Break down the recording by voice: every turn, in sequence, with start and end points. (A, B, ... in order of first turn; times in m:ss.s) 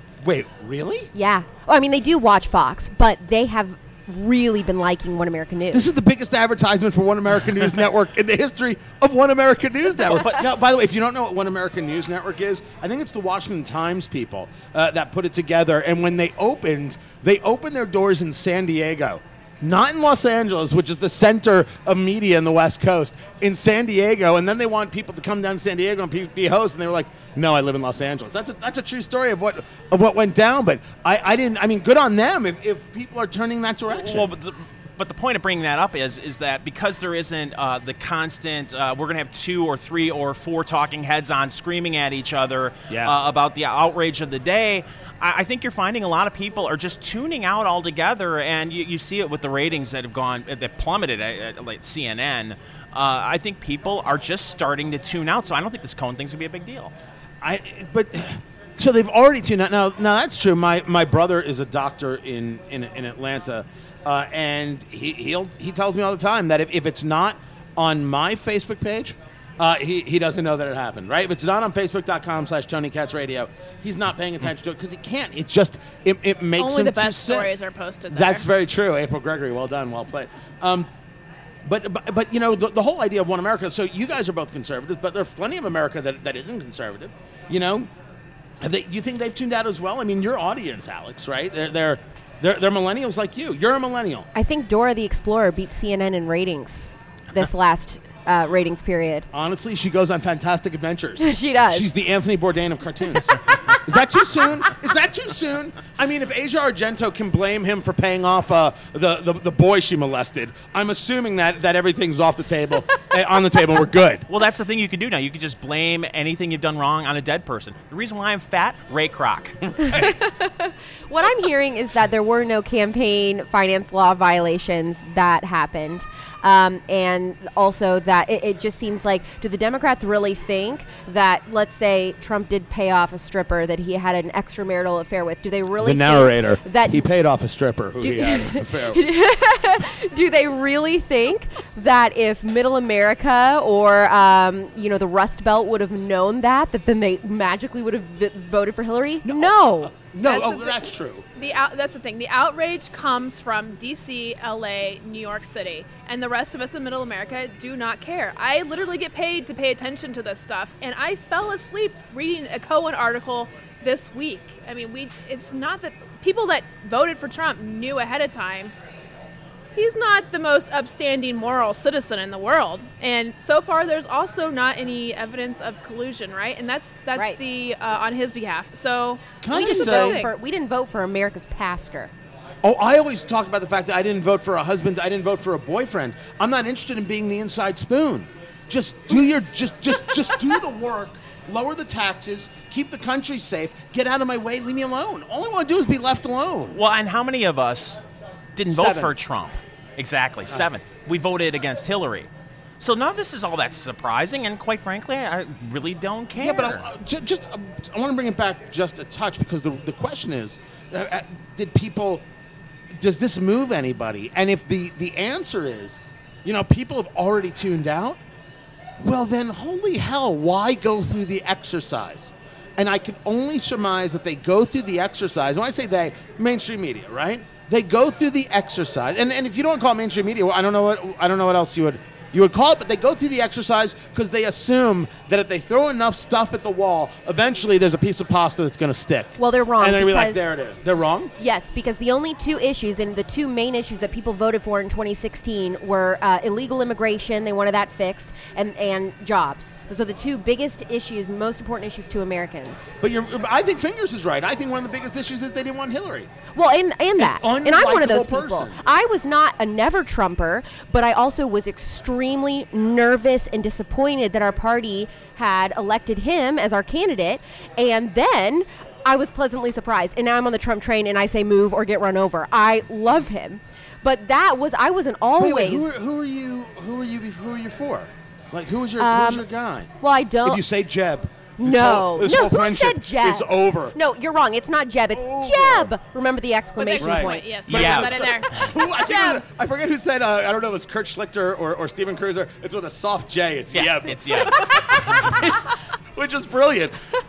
0:00.2-0:01.1 A
0:01.1-0:06.0 B
0:05.7-0:34.3 A
0:10.1-0:10.4 C
0:33.9-0:56.9 C
0:42.9-0:43.1 A
0:57.4-1:17.5 A
1:16.6-1:18.4 D
1:18.1-1:20.9 A
1:21.6-1:27.9 A
1:28.6-1:34.3 A
1:34.3-1:39.3 B
1:39.3-1:54.3 A
1:41.2-1:41.9 B
1:54.3-2:00.1 C
1:59.9-2:17.0 B
2:15.8-2:19.0 A
2:18.0-2:29.9 B
2:29.2-2:31.2 A
2:30.2-2:30.8 D
2:31.3-2:48.7 D
2:49.7-3:00.3 D
2:59.4-3:00.2 A
2:59.5-3:02.1 B
3:02.6-3:16.8 A
3:16.7-3:18.0 C
3:18.6-3:26.8 C
3:18.7-3:19.1 A
3:26.3-3:32.2 A
3:32.9-3:38.2 A
3:39.0-4:01.3 A
3:59.4-4:00.4 B
4:01.4-4:12.9 B
4:13.0-4:16.3 A
4:16.5-4:35.9 B
4:17.2-4:18.8 A
4:35.4-4:39.9 A
4:39.0-4:39.4 B
4:40.0-4:40.6 B
4:40.4-4:44.0 A
4:41.6-4:47.6 B
4:45.1-4:45.9 A
4:46.8-4:49.4 D
4:47.0-4:57.0 A
4:47.7-4:48.7 C
4:53.7-4:55.4 C
4:54.5-4:55.2 D